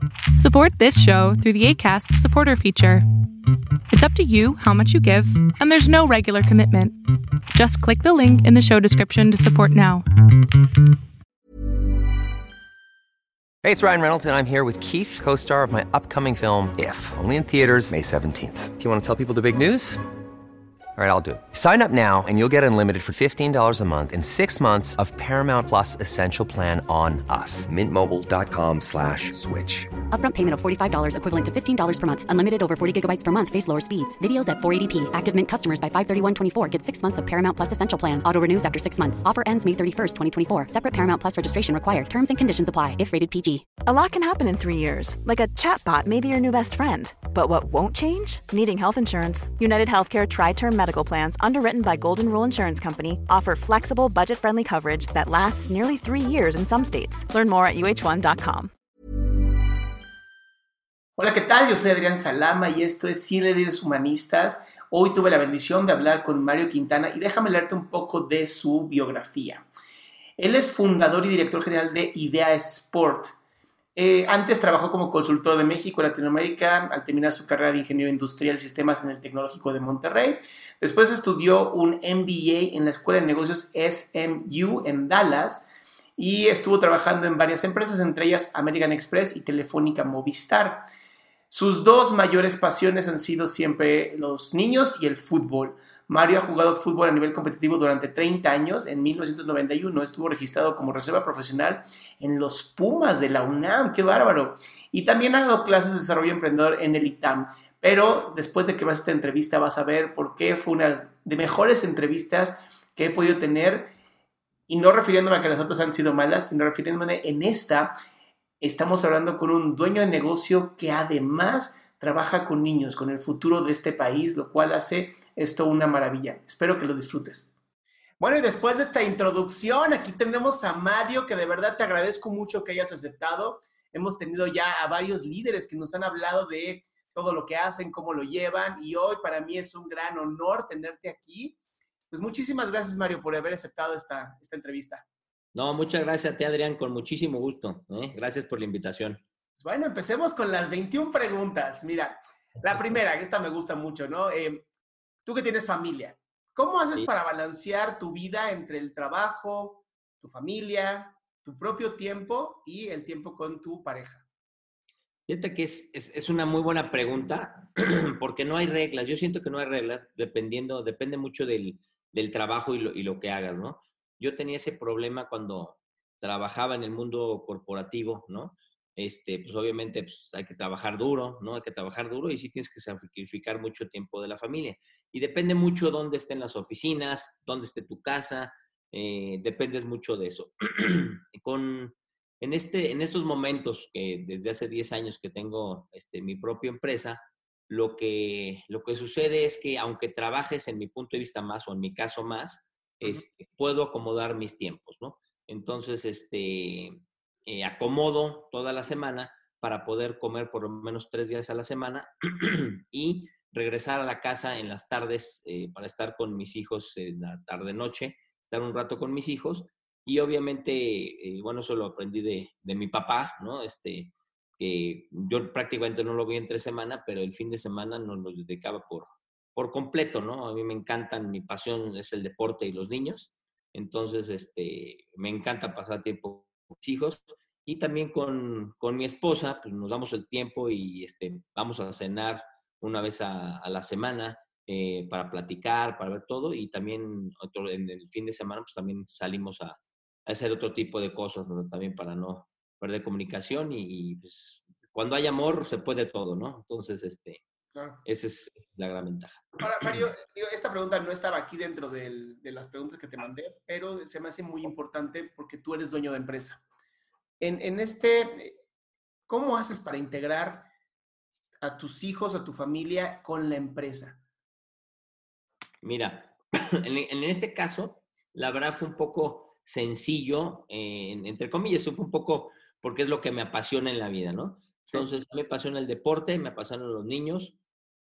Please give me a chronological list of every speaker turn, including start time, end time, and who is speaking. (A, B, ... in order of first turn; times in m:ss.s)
0:00.4-0:03.0 A
0:03.9-0:07.0 A
0:07.5-0:10.0 A
0:13.6-0:20.0 B
0:21.0-0:29.9 B
0:30.1-0:43.8 C
0:43.7-0:58.7 D
1:01.2-1:09.6 E
1:10.4-1:13.3 E
1:14.0-1:30.8 E
1:31.5-1:53.9 E
1:54.7-1:57.9 E
1:58.6-2:07.5 E
2:08.2-2:21.6 E
2:22.1-2:25.0 E
2:25.5-2:29.2 F
2:29.6-2:34.6 E
2:35.2-2:44.2 E
2:45.3-4:17.4 F
4:17.7-4:18.0 E
4:18.0-4:20.0 F
4:19.6-4:26.6 E
4:27.4-4:28.5 E
4:29.3-4:30.7 E
4:31.6-4:34.2 E
4:35.8-4:47.6 F